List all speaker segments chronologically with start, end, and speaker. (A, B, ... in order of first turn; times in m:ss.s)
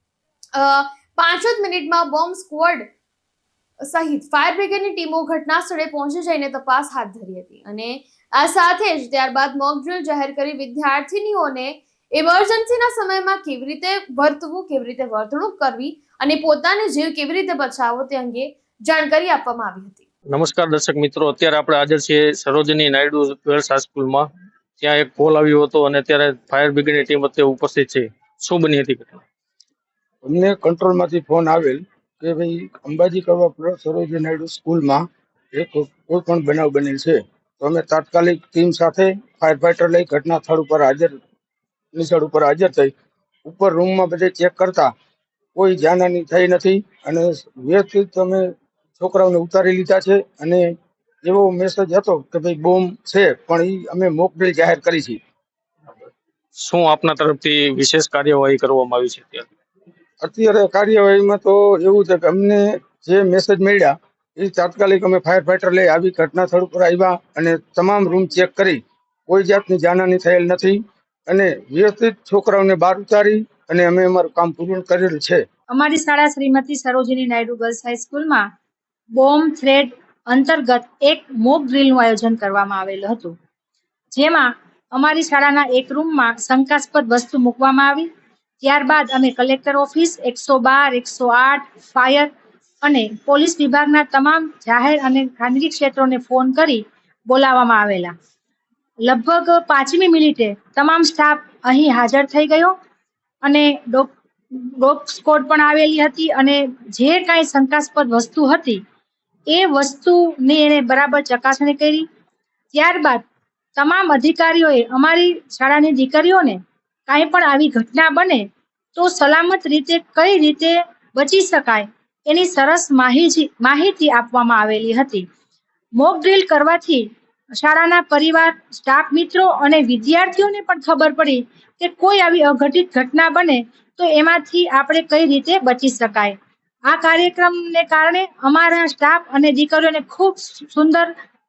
0:00.6-0:02.9 A
0:03.8-0:20.0 A
0:20.3-0:29.2 B
0:30.2-0:41.2 C
0:41.9-0:42.9 C
0:43.4-0:44.9 C
0:45.6-0:50.7 C
0:51.2-0:55.2 C
0:56.6-0:59.5 B
1:00.2-1:15.4 C
1:15.7-1:18.5 D
1:19.1-1:23.4 D
1:24.1-1:28.1 D
1:28.6-1:32.3 D
1:32.8-1:38.1 D
1:39.0-1:42.7 D
1:43.4-1:48.8 D
1:49.5-1:52.1 D
1:52.7-1:53.2 D
1:53.8-2:05.3 D
2:06.0-2:16.4 D
2:16.9-2:21.1 D